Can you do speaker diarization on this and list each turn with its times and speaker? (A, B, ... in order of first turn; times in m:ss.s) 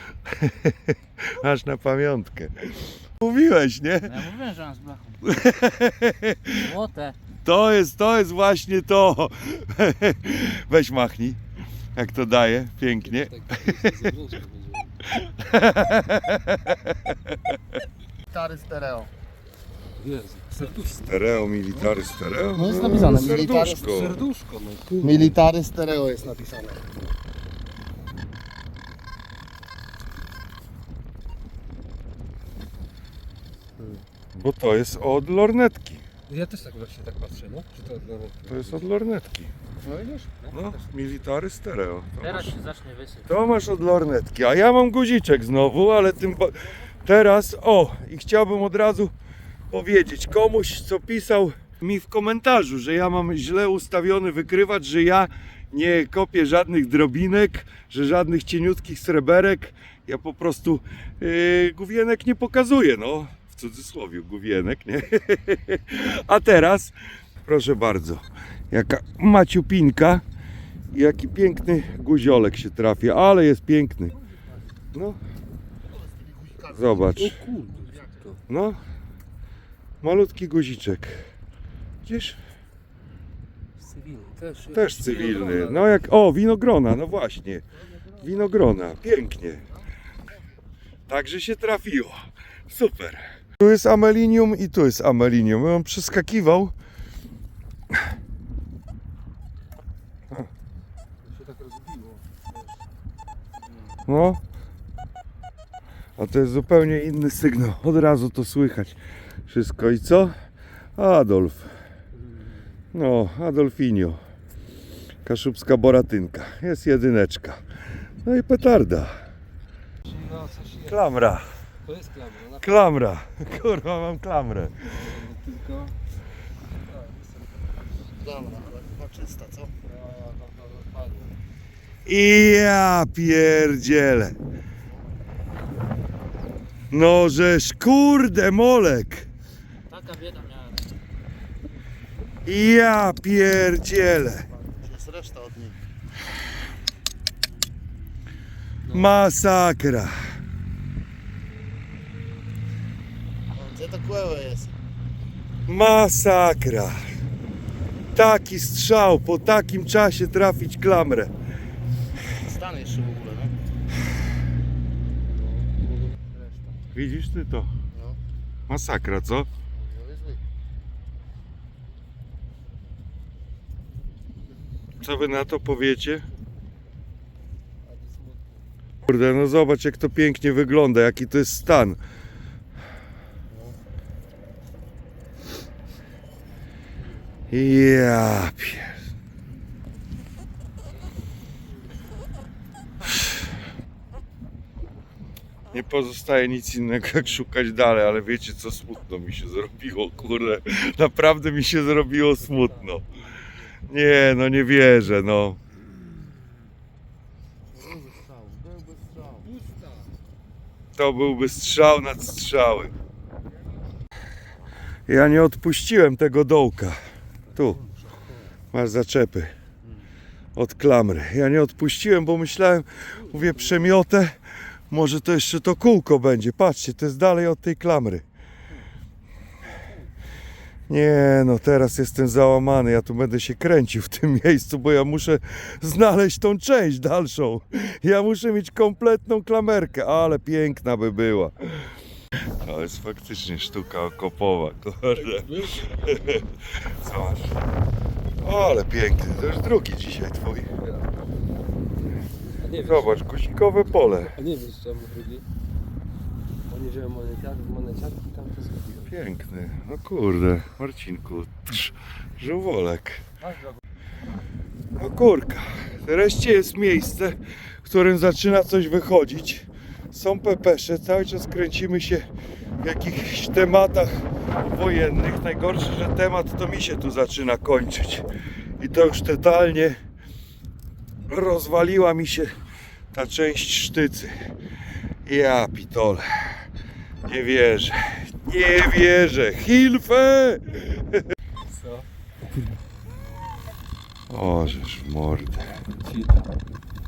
0:00.3-0:04.3 A
0:04.1-0:05.2 B
0:05.2-0:06.7 A
0:06.6-0:07.2 B
0:07.4-0:11.4 A
0:12.0-0:14.0 A
0:13.0-0:15.0 C
0:15.1-0:17.6 A
0:18.3-0:19.1 D
0:20.0-0:22.1 C
0:21.0-0:24.2 A
0:22.6-0:23.9 D
0:23.0-0:25.5 C
0:25.0-0:26.4 D
0:26.1-0:26.8 C
0:34.4-0:36.0 A
0:36.3-0:38.8 C
0:38.5-0:39.5 A
0:39.8-0:40.3 D
0:40.4-0:40.8 C
0:40.5-0:42.6 A
0:42.5-0:43.2 B
0:43.2-0:49.1 A
0:49.7-1:10.2 A
1:10.9-1:14.2 A
1:14.9-1:15.2 A
1:16.0-1:16.5 D
1:16.6-1:17.4 A
1:17.1-1:18.4 C
1:18.5-1:18.8 A
1:20.0-1:21.2 A
1:22.0-1:22.4 A
1:23.8-1:26.0 C
1:24.7-1:29.7 A
1:31.1-1:32.2 A
1:32.7-1:36.7 A
1:41.2-1:42.6 C
1:44.1-1:44.4 A
1:46.2-1:50.3 A
1:51.0-1:51.7 A
1:52.3-1:52.6 C
1:52.9-1:54.2 A
1:55.2-1:57.6 A
1:58.2-1:59.1 A
2:00.1-2:01.0 C
2:00.8-2:01.5 A
2:01.8-2:02.8 C
2:02.6-2:04.7 A
2:04.8-2:05.9 C
2:06.8-2:07.4 C
2:08.2-2:09.7 D
2:09.9-2:11.3 C
2:12.0-2:14.4 A
2:16.9-2:19.3 A
2:19.9-2:20.6 D
2:22.5-2:24.5 A
2:24.6-2:25.8 D
2:28.9-2:29.2 C
2:28.9-2:30.1 A
2:33.5-2:34.7 D
2:35.7-2:37.0 A
2:38.1-2:41.3 A
2:42.4-2:43.5 D
2:45.4-2:46.5 C
2:46.9-2:47.7 A
2:47.9-2:48.2 D
2:48.7-2:49.5 A
2:49.7-2:50.4 D
2:55.0-2:56.2 A
2:57.8-2:58.6 C
2:59.0-3:02.0 A
3:07.5-3:08.9 A
3:15.7-3:23.0 A
3:22.4-3:23.0 C
3:23.9-3:25.6 A
3:27.8-3:29.3 D
3:29.3-3:30.1 C
3:31.0-3:32.9 A
3:35.1-3:37.0 A
3:37.6-3:37.8 A
3:37.7-3:38.3 C
3:38.7-3:39.5 A
3:40.6-3:44.4 A
3:44.9-3:48.2 A
3:50.9-4:01.9 A
4:02.6-4:07.6 A
4:05.2-4:06.4 C
4:08.4-4:10.7 A
4:10.8-4:11.1 C
4:12.6-4:13.2 C
4:12.8-4:14.3 A
4:14.3-4:15.4 C
4:16.7-4:19.1 C
4:19.1-4:23.2 A
4:25.0-4:32.3 A
4:32.8-4:38.3 A
4:38.8-4:40.0 A
4:41.3-4:42.5 A
4:43.1-4:44.3 A
4:45.2-4:46.2 A
4:47.3-4:51.2 A
4:51.7-4:52.1 C
4:54.3-4:55.7 A
4:55.8-4:56.5 C